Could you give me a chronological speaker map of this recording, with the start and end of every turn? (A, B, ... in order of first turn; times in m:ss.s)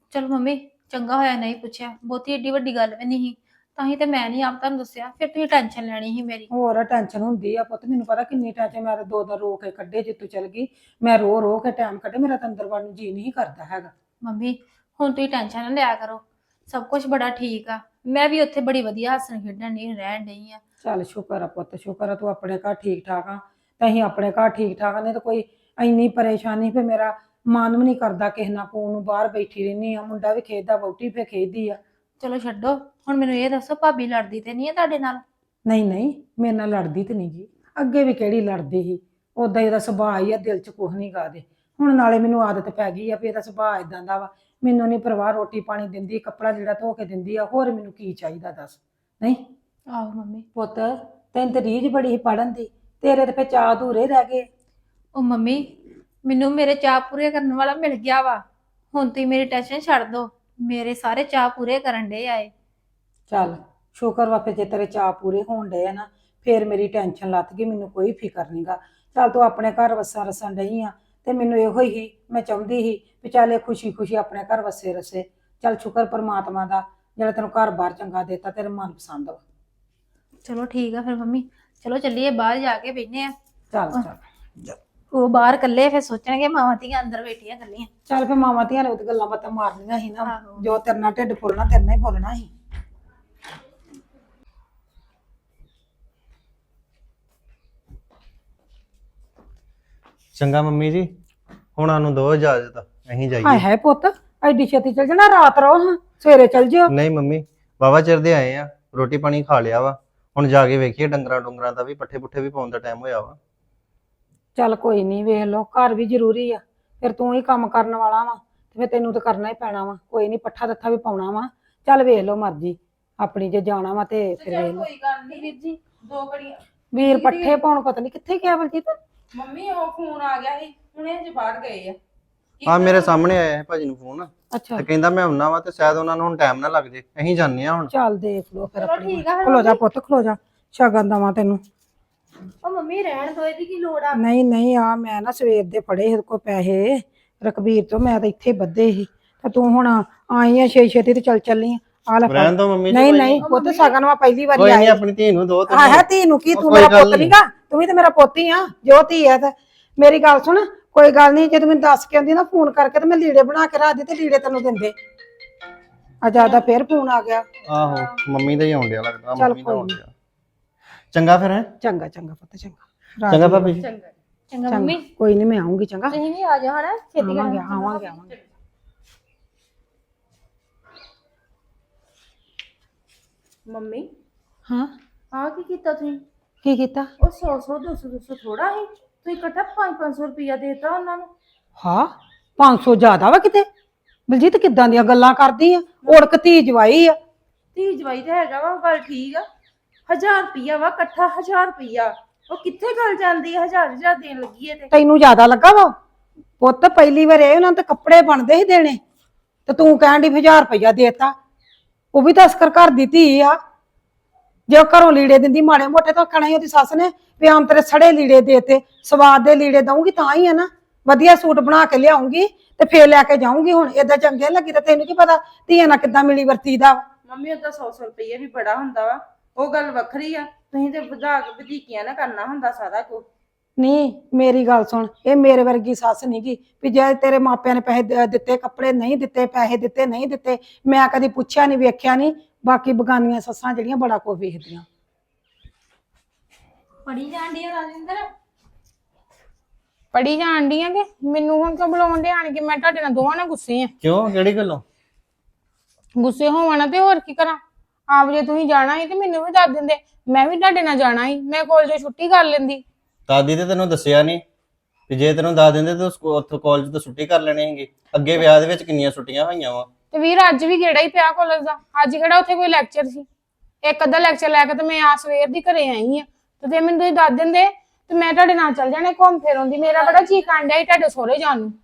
0:00.1-0:06.5 A
0:06.5-0:13.9 B
0:14.2-0:20.6 A
0:20.8-0:31.8 B
0:32.2-0:35.2 A
0:35.6-0:49.4 B
0:49.9-0:50.4 A
0:50.5-0:54.5 B
0:55.2-0:55.6 A
0:56.2-1:02.5 A
1:03.3-1:19.4 B
1:20.4-1:23.3 A
1:23.7-1:24.8 B
1:25.1-1:27.9 A
1:28.1-1:32.5 B
1:30.2-1:30.8 A
1:40.4-1:41.1 C
1:41.8-1:43.6 C
1:43.4-1:46.9 B
1:46.9-1:53.4 C
1:54.6-2:04.9 B
2:04.4-2:06.6 D
2:06.9-2:09.0 B
2:09.4-2:12.0 D
2:12.6-2:17.9 C
2:14.5-2:14.9 B
2:17.9-2:21.6 B
2:18.8-2:19.8 A
2:22.6-2:24.2 A
2:24.1-2:35.0 B
2:32.3-2:33.4 C
2:33.4-2:34.0 A
2:34.6-2:37.4 C
2:35.7-2:45.0 B
2:46.2-2:47.5 B
2:46.3-2:46.7 A
2:47.7-2:50.1 C
2:49.4-2:50.0 B
2:51.1-2:51.7 C
2:51.8-2:53.7 B
2:53.3-2:53.9 C
2:53.8-2:54.1 D
2:54.5-2:55.0 A
2:54.7-2:56.2 B
2:56.1-2:58.4 A
2:57.2-2:58.3 B
3:03.7-3:04.1 D
3:04.7-3:04.9 B
3:05.4-3:06.2 D
3:06.6-3:07.1 B
3:07.3-3:11.3 D
3:11.8-3:13.7 B
3:14.3-3:17.2 B
3:17.8-3:19.4 D
3:20.1-3:24.9 D
3:24.9-3:25.9 B
3:26.6-3:29.0 B
3:29.7-3:31.4 B
3:32.1-3:33.6 B
3:34.7-3:47.0 B
3:47.3-3:53.2 D
3:53.8-4:04.8 B
4:07.1-4:08.3 A
4:10.1-4:13.9 E
4:14.0-4:14.8 C
4:16.2-4:17.6 E
4:18.1-4:22.8 E
4:23.3-4:24.4 C
4:25.1-4:29.9 C
4:30.1-4:33.3 E
4:33.8-4:41.8 E
4:39.9-4:40.5 A